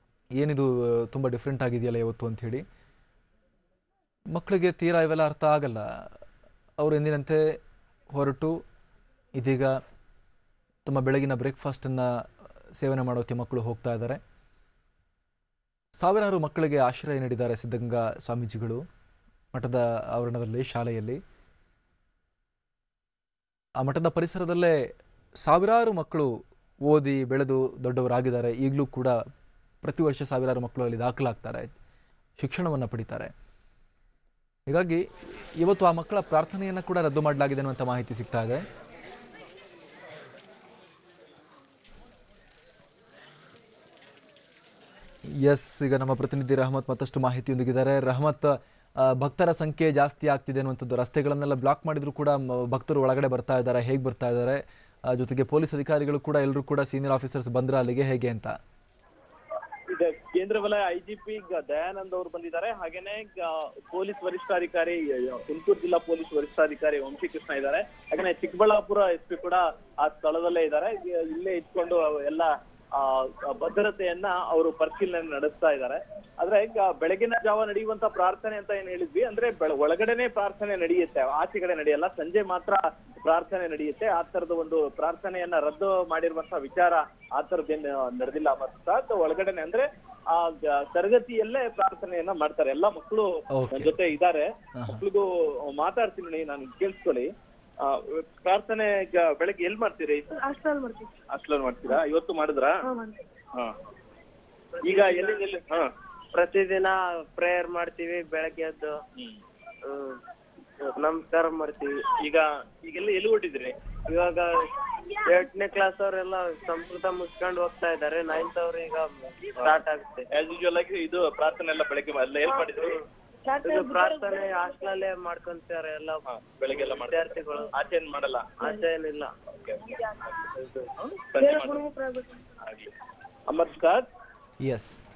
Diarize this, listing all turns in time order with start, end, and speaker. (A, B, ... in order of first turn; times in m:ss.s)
0:00.4-0:02.6 A
0:04.3-0:06.1 A
0:06.8-0:07.6 A
0:08.1-0:08.6 A
0:09.4-0:09.8 A
0:10.8-0:14.2 A
0:16.0-0:18.8 A
0:19.5-0:21.2 A
0:23.8-0:24.9 A
0:25.4-0:26.3 A
0:26.8-0:29.2 A
0:29.8-0:31.7 A
0:32.4-0:33.3 A
0:34.7-0:38.6 A
0:45.3-0:58.6 A
0:59.9-1:37.3 B
1:33.6-1:34.0 A
1:34.8-1:35.0 A
1:37.8-1:40.5 B
1:40.4-1:41.2 C
1:41.3-1:42.9 B
1:42.8-1:43.2 C
1:44.8-1:45.9 B
1:44.8-1:45.4 D
1:46.3-1:49.0 D
1:49.8-1:50.2 D
1:50.8-1:52.1 D
1:52.1-1:53.8 B
1:54.1-2:00.3 D
2:00.3-2:03.0 B
2:03.4-2:04.9 C
2:03.6-2:07.7 D
2:06.3-2:08.7 B
2:08.6-2:09.4 D
2:09.5-2:10.4 B
2:10.0-2:10.3 C
2:10.4-2:10.9 D
2:11.0-2:11.9 B
2:11.4-2:12.5 C
2:12.6-2:12.9 B
2:13.5-2:14.0 B
2:14.6-2:15.0 A